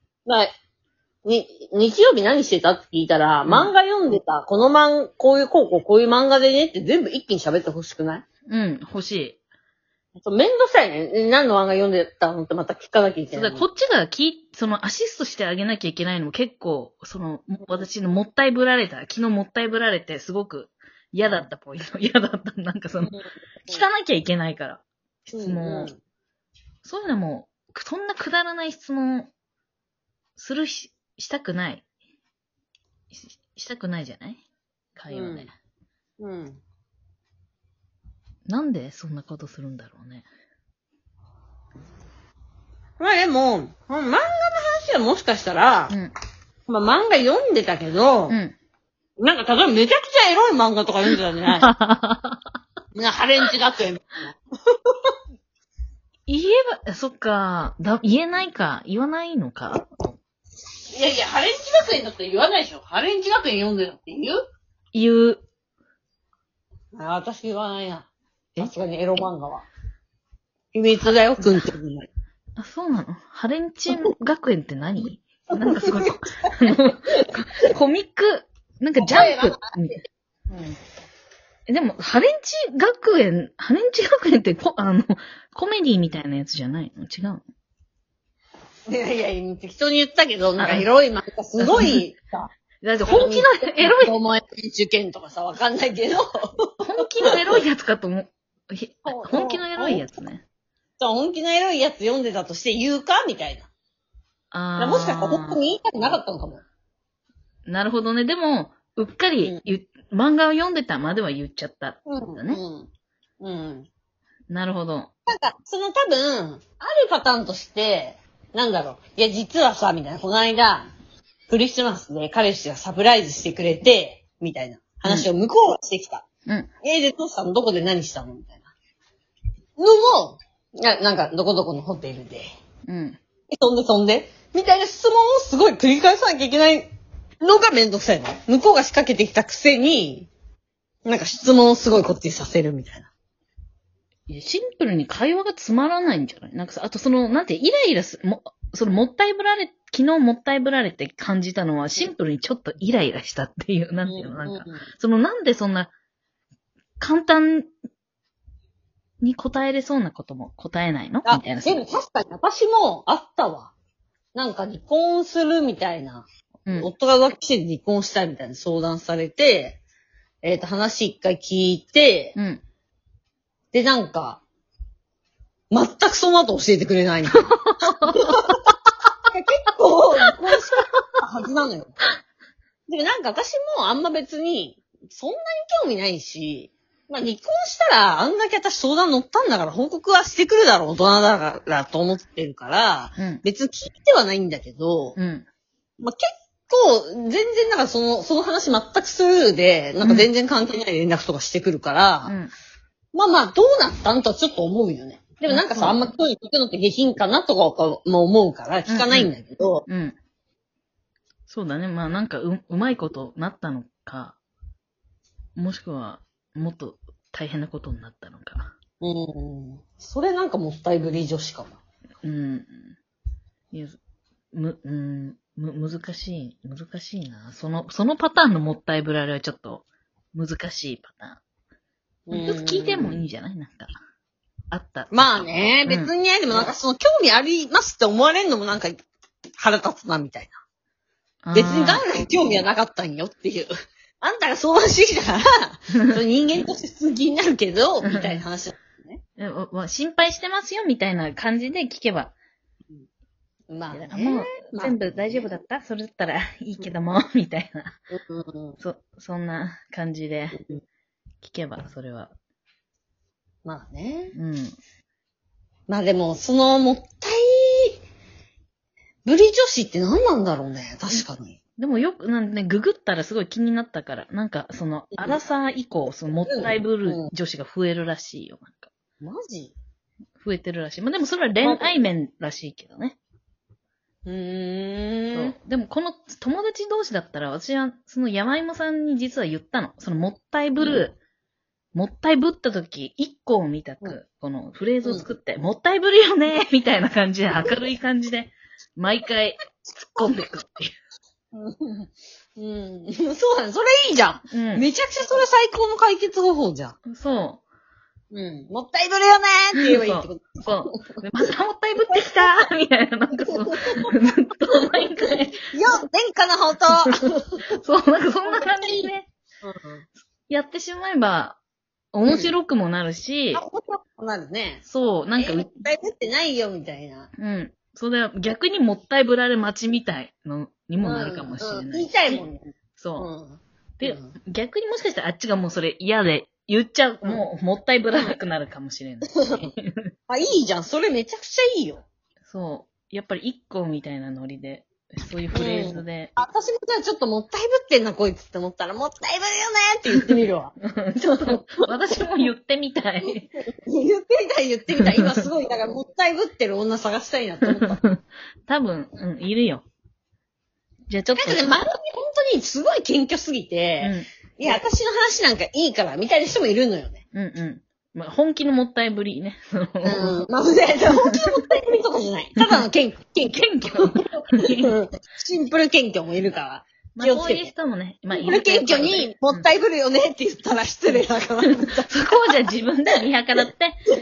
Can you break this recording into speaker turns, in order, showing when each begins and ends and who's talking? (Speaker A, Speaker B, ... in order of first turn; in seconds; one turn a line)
Speaker A: 1.2-8.2
Speaker B: 3.5-3.7
Speaker B: 8.5-9.4
Speaker A: 10.2-13.7
Speaker B: 13.3-23.1
Speaker A: 23.0-23.9
Speaker B: 23.7-25.9
Speaker A: 25.3-26.0
Speaker B: 26.8-29.3
Speaker B: 30.4-31.9
Speaker B: 33.1-34.4
Speaker B: 35.0-35.5
Speaker A: 35.1-35.5
Speaker A: 36.2-36.6
Speaker B: 38.5-40.3
Speaker A: 43.0-46.0
Speaker A: 46.7-48.4
Speaker B: 48.3-48.5
Speaker A: 49.2-51.7
Speaker B: 51.6-52.4
Speaker A: 53.0-55.1
Speaker B: 56.3-60.2
Speaker A: 60.9-64.4
Speaker B: 64.9-65.4
Speaker A: 67.0-69.7
Speaker B: 68.6-69.3
Speaker A: 70.7-72.1
Speaker B: 71.1-71.7
Speaker B: 72.6-80.0
Speaker A: 75.6-76.5
Speaker A: 79.0-79.8
Speaker B: 81.7-87.4
Speaker A: 88.9-92.5
Speaker B: 90.6-90.9
Speaker B: 91.6-92.0
Speaker B: 92.8-94.1
Speaker A: 93.1-96.2
Speaker B: 96.8-100.4
Speaker A: 97.3-97.6
Speaker A: 99.1-100.1
Speaker A: 101.0-103.7
Speaker B: 104.5-105.6
Speaker A: 104.8-106.6
Speaker B: 107.7-112.6
Speaker A: 112.1-112.9
Speaker A: 113.4-113.9
Speaker B: 114.5-115.1
Speaker A: 115.3-120.9
Speaker A: 121.5-126.2
Speaker A: 126.8-128.7
Speaker A: 129.8-132.5
Speaker B: 132.9-133.2
Speaker A: 133.5-136.9
Speaker A: 137.4-140.3
Speaker A: 141.1-143.1
Speaker B: 144.3-155.9
Speaker A: 154.1-154.8
Speaker B: 157.0-157.7
Speaker B: 159.2-161.8
Speaker A: 161.3-163.7
Speaker A: 164.3-166.2
Speaker B: 166.7-166.9
Speaker A: 166.8-169.8
Speaker A: 170.4-172.3
Speaker B: 172.3-172.6
Speaker A: 173.7-174.4
Speaker A: 175.7-177.5
Speaker B: 177.3-178.6
Speaker A: 178.1-178.7
Speaker A: 179.3-182.0
Speaker B: 180.3-180.8
Speaker A: 182.9-195.2
Speaker B: 193.2-193.4
Speaker B: 195.2-195.4
Speaker A: 196.0-202.4
Speaker B: 200.0-200.3
Speaker B: 202.2-202.5
Speaker A: 203.1-209.8
Speaker B: 205.5-206.0
Speaker B: 208.9-209.3
Speaker B: 209.9-210.2
Speaker B: 211.5-214.4
Speaker B: 215.6-218.7
Speaker A: 219.0-221.8
Speaker B: 222.2-223.0
Speaker B: 223.7-224.0
Speaker B: 224.5-231.4
Speaker A: 232.3-233.2
Speaker B: 232.3-234.0
Speaker B: 234.7-236.7
Speaker A: 235.1-238.9
Speaker A: 239.6-240.6
Speaker B: 241.4-242.1
Speaker A: 241.5-243.7
Speaker A: 244.2-249.2
Speaker B: 248.0-248.4
Speaker B: 249.4-252.3
Speaker A: 253.7-255.5
Speaker B: 253.9-258.0
Speaker A: 258.1-258.8
Speaker B: 258.8-260.6
Speaker B: 261.4-262.3
Speaker A: 263.6-264.3
Speaker B: 264.3-264.8
Speaker A: 265.9-268.0
Speaker A: 269.3-271.6
Speaker B: 271.8-278.9
Speaker A: 276.4-277.3
Speaker A: 279.2-279.8
Speaker B: 280.4-283.2
Speaker A: 281.6-282.0
Speaker A: 284.2-285.6
Speaker B: 285.3-291.2
Speaker A: 290.8-291.1
Speaker B: 291.9-300.9
Speaker A: 301.5-307.0
Speaker B: 304.5-304.9
Speaker B: 307.1-307.6
Speaker A: 308.3-310.8
Speaker B: 309.8-315.6
Speaker A: 312.1-312.4
Speaker A: 313.5-314.1
Speaker A: 315.6-317.6
Speaker B: 316.9-319.3
Speaker A: 318.5-319.1
Speaker A: 319.6-320.1
Speaker B: 320.5-321.6
Speaker B: 322.1-323.6
Speaker A: 322.3-322.5
Speaker A: 323.5-324.8
Speaker B: 324.9-325.8
Speaker A: 325.4-327.3
Speaker B: 327.4-333.3
Speaker A: 331.0-332.6
Speaker A: 333.2-334.3
Speaker B: 334.0-340.1
Speaker A: 340.3-342.0
Speaker B: 342.5-346.3
Speaker A: 345.5-350.7
Speaker B: 350.2-353.5
Speaker A: 351.4-351.8
Speaker A: 353.6-358.0
Speaker B: 355.0-355.5
Speaker B: 357.7-359.9
Speaker B: 361.1-361.8
Speaker A: 361.4-367.2
Speaker B: 364.0-364.3
Speaker B: 367.3-370.4
Speaker A: 370.0-377.7
Speaker B: 371.1-371.6
Speaker B: 372.6-372.9
Speaker B: 373.4-375.0
Speaker B: 377.1-379.7
Speaker A: 378.3-382.4
Speaker B: 381.1-383.9